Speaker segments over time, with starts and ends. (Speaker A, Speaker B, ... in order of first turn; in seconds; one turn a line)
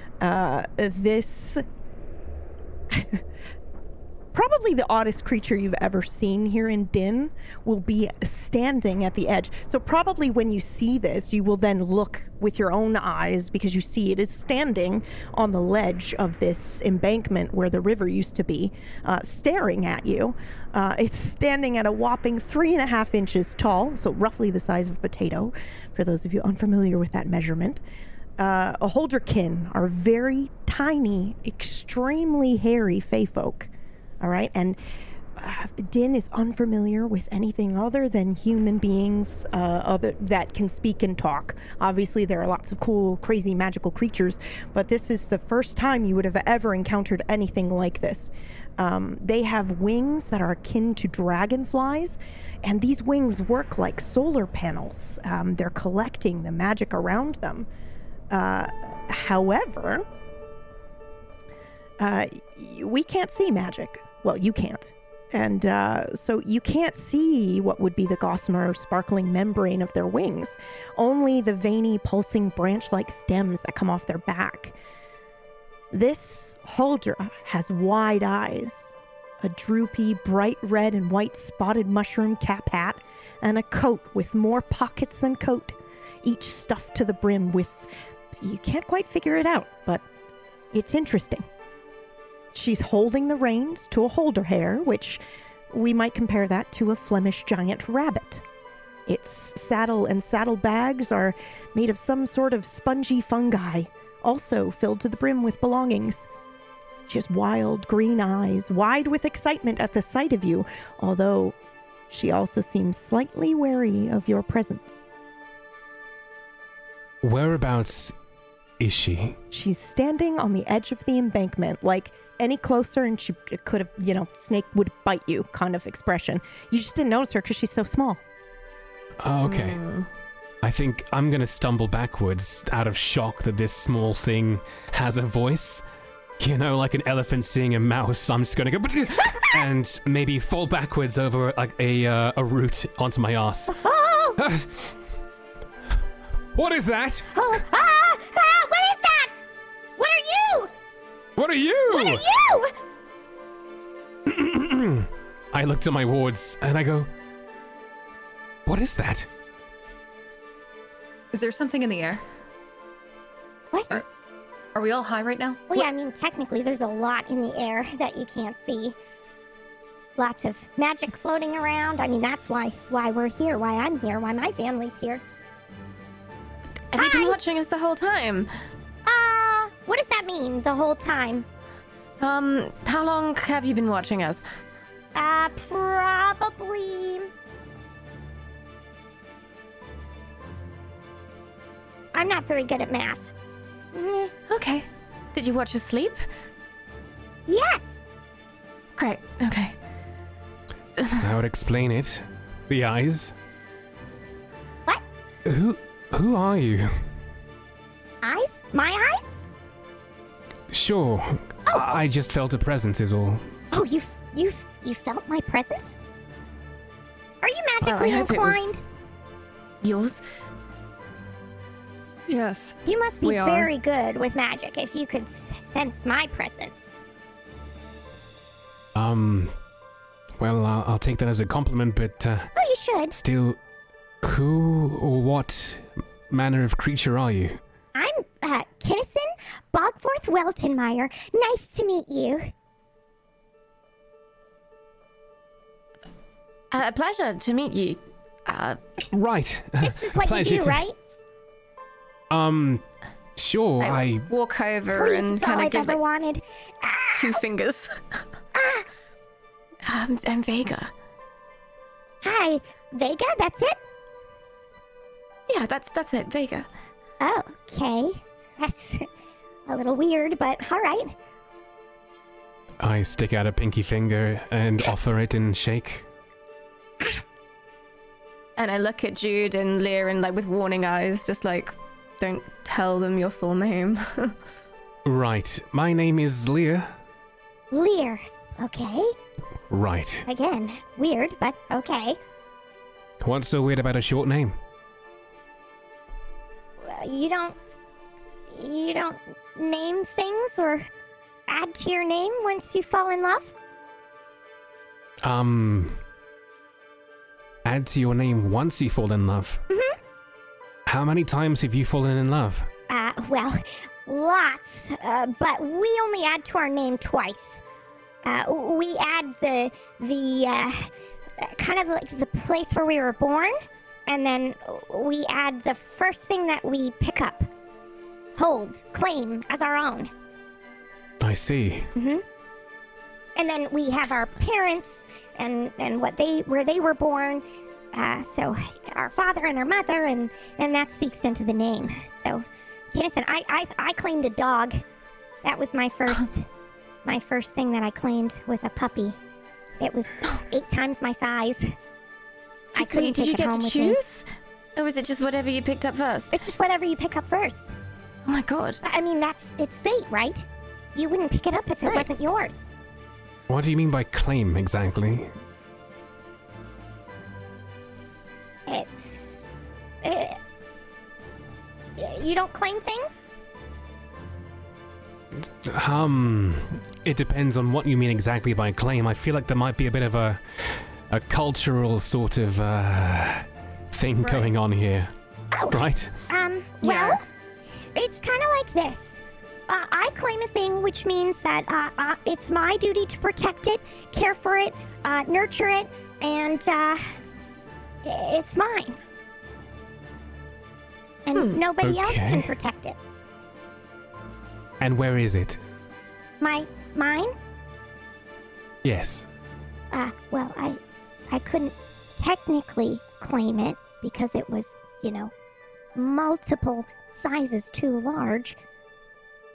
Speaker A: 0.2-1.6
Speaker A: 2.9-3.2
Speaker A: 4.3-27.8
Speaker A: 28.4-34.8
Speaker A: 35.4-57.7
Speaker A: 58.3-60.1
Speaker A: 62.0-74.8
Speaker A: 75.9-90.0
Speaker A: 90.7-91.5
Speaker A: 92.5-98.4
Speaker A: 99.1-106.3
Speaker A: 107.1-111.6
Speaker A: 112.1-115.0
Speaker B: 117.2-118.2
Speaker B: 118.8-119.4
Speaker A: 119.5-128.2
Speaker B: 129.2-129.8
Speaker C: 129.4-130.1
Speaker B: 130.6-135.8
Speaker B: 136.4-143.8
Speaker D: 143.7-144.4
Speaker B: 144.4-144.9
Speaker B: 146.5-147.3
Speaker D: 147.3-149.4
Speaker D: 150.0-150.7
Speaker B: 151.4-152.2
Speaker D: 151.9-152.8
Speaker B: 154.3-157.1
Speaker B: 158.7-159.3
Speaker E: 161.3-162.2
Speaker D: 163.7-164.0
Speaker E: 164.8-165.9
Speaker D: 165.7-168.9
Speaker D: 170.2-175.2
Speaker C: 176.9-178.5
Speaker D: 177.0-177.4
Speaker D: 179.1-181.5
Speaker C: 182.2-184.4
Speaker D: 185.2-187.3
Speaker D: 192.1-193.3
Speaker D: 193.9-194.3
Speaker C: 194.5-196.2
Speaker D: 197.5-198.0
Speaker C: 199.0-199.8
Speaker C: 201.0-201.2
Speaker B: 201.2-203.3
Speaker B: 205.4-207.1
Speaker D: 208.2-209.4
Speaker B: 210.7-213.5
Speaker D: 213.7-216.0
Speaker D: 217.4-218.8
Speaker C: 217.8-218.7
Speaker F: 218.0-218.6
Speaker C: 219.8-220.2
Speaker F: 222.3-223.7
Speaker D: 222.8-226.9
Speaker B: 228.9-229.6
Speaker B: 230.4-232.5
Speaker D: 232.6-233.2
Speaker B: 233.1-233.6
Speaker B: 234.2-237.6
Speaker D: 237.9-242.5
Speaker C: 246.7-249.0
Speaker B: 249.1-250.8
Speaker D: 249.8-251.0
Speaker B: 252.3-252.8
Speaker B: 253.4-254.3
Speaker C: 253.8-256.0
Speaker D: 254.9-257.4
Speaker C: 257.2-258.0
Speaker D: 258.6-258.9
Speaker C: 259.8-260.9
Speaker D: 262.2-263.8
Speaker C: 265.5-266.7
Speaker D: 267.2-269.1
Speaker D: 269.7-271.1
Speaker B: 272.8-276.1
Speaker C: 278.6-284.4
Speaker B: 285.1-287.0
Speaker D: 287.7-289.2
Speaker B: 289.7-290.3
Speaker D: 290.2-292.2
Speaker B: 293.2-294.6
Speaker D: 296.8-297.6
Speaker D: 298.5-300.9
Speaker D: 301.5-303.5
Speaker B: 305.2-306.0
Speaker B: 307.6-309.6
Speaker D: 309.7-310.0
Speaker B: 310.9-312.7
Speaker D: 312.9-317.6
Speaker D: 318.2-327.5
Speaker D: 328.4-330.1
Speaker B: 331.2-331.9
Speaker D: 332.0-332.2
Speaker D: 333.4-344.8
Speaker D: 345.4-346.5
Speaker D: 347.1-349.2
Speaker D: 349.8-351.8
Speaker C: 352.7-356.4
Speaker D: 352.8-354.0
Speaker D: 356.3-357.8
Speaker C: 358.3-358.8
Speaker D: 358.8-362.7
Speaker B: 363.5-365.3
Speaker D: 368.7-369.5
Speaker D: 370.0-370.4
Speaker D: 372.0-373.2
Speaker B: 375.4-385.1
Speaker D: 385.5-387.2
Speaker B: 385.7-386.3
Speaker D: 387.9-397.2
Speaker D: 398.0-399.0
Speaker D: 401.3-403.0
Speaker C: 401.3-401.6
Speaker B: 401.8-402.5
Speaker B: 404.8-405.6
Speaker D: 406.4-407.4
Speaker B: 408.8-409.3
Speaker D: 409.9-415.3
Speaker D: 415.9-418.6